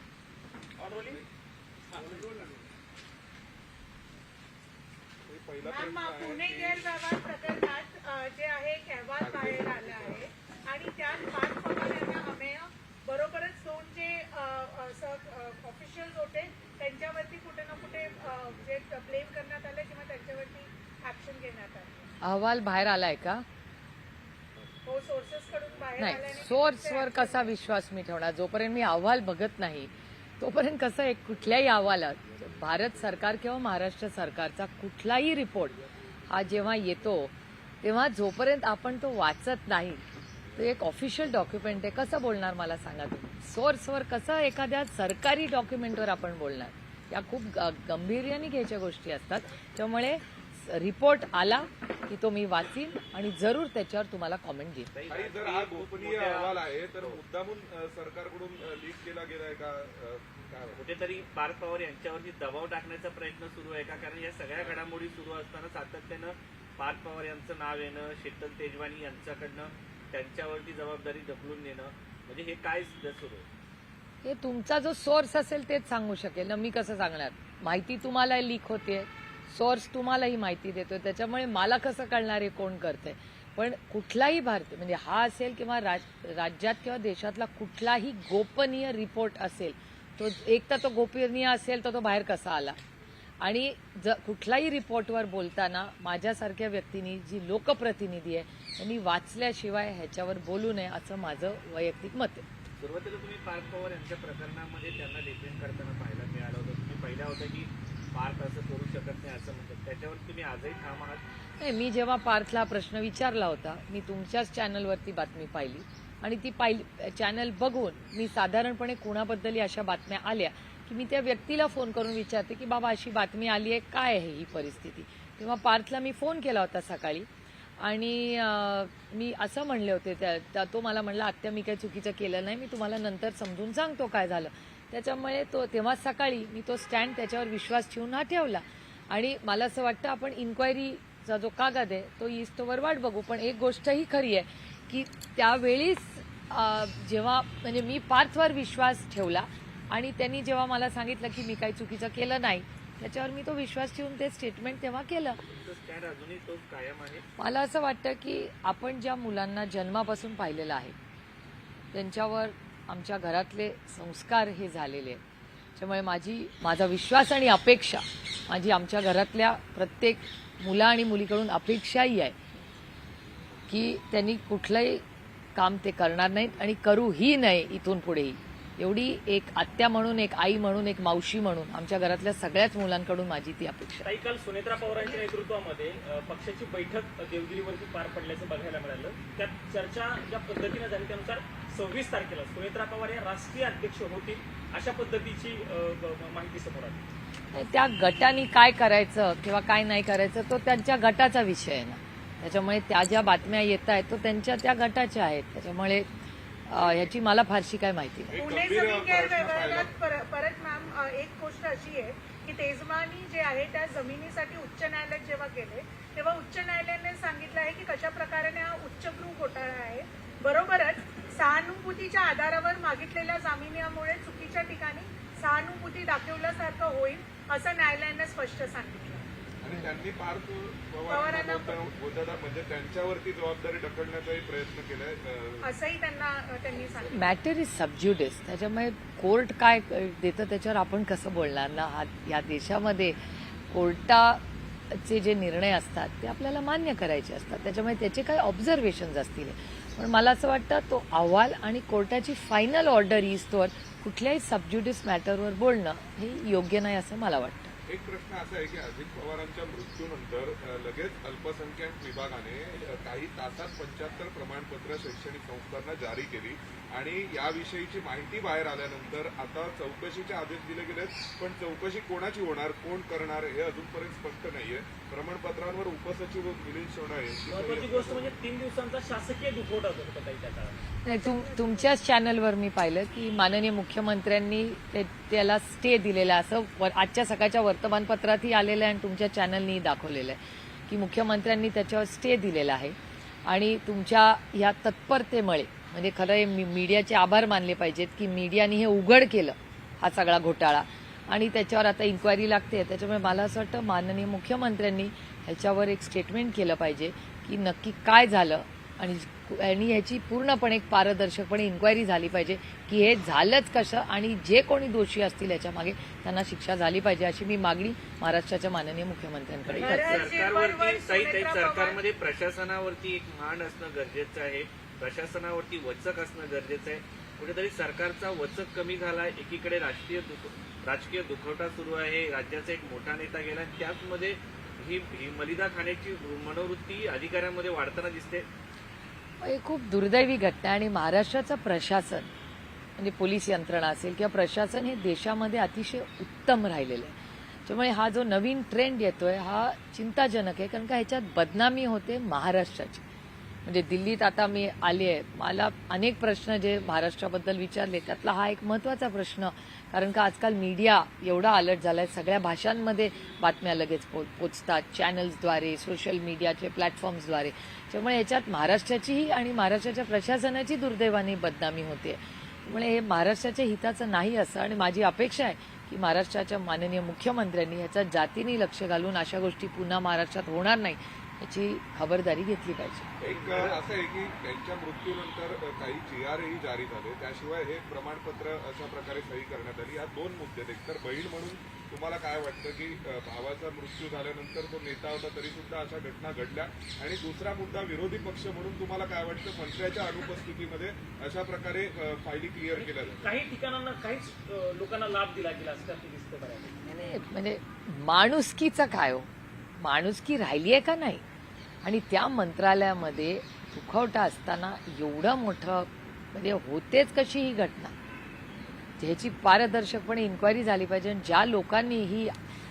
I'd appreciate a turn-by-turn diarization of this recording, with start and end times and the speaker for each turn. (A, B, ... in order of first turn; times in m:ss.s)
0:00.8-0:01.2 A
0:01.9-0:02.6 A
0:05.2-0:07.0 A
0:05.6-0:22.1 B
0:09.2-0:10.2 A
0:22.2-0:23.4 C
0:24.8-0:27.5 B
0:26.0-0:40.0 C
0:40.5-0:54.9 C
0:54.9-0:57.2 D
0:55.1-1:00.8 A
1:00.7-1:13.5 D
1:14.2-1:32.8 C
1:33.4-1:42.4 C
1:42.8-1:51.2 D
1:51.6-2:07.3 C
2:07.8-2:35.4 C
2:35.5-2:37.2 D
2:37.4-2:40.9 C
2:41.9-2:45.2 C
2:45.8-2:52.4 C
2:53.7-2:55.0 C
2:55.6-3:04.1 C
3:04.0-3:17.0 E
3:04.9-3:05.2 B
3:17.5-3:26.1 C
3:26.7-3:28.4 C
3:28.3-3:29.9 A
3:28.4-3:49.2 B
3:49.6-3:55.7 A
3:51.1-3:51.8 B
3:55.6-3:57.4 B
3:57.0-4:03.2 C
4:03.7-4:17.7 C
4:17.9-4:38.3 A
4:37.5-4:40.8 E
4:41.0-4:41.9 B
4:41.0-5:20.2 C
5:19.7-5:38.4 D
5:19.8-5:22.0 B
5:39.4-5:42.3 C
5:43.0-5:53.0 C
5:53.6-6:23.1 C
6:23.2-6:23.8 D
6:23.2-6:43.3 A
6:42.7-6:46.8 E
6:46.8-6:49.3 C
6:49.8-6:51.2 C
6:51.8-6:57.9 C
6:59.0-7:02.4 C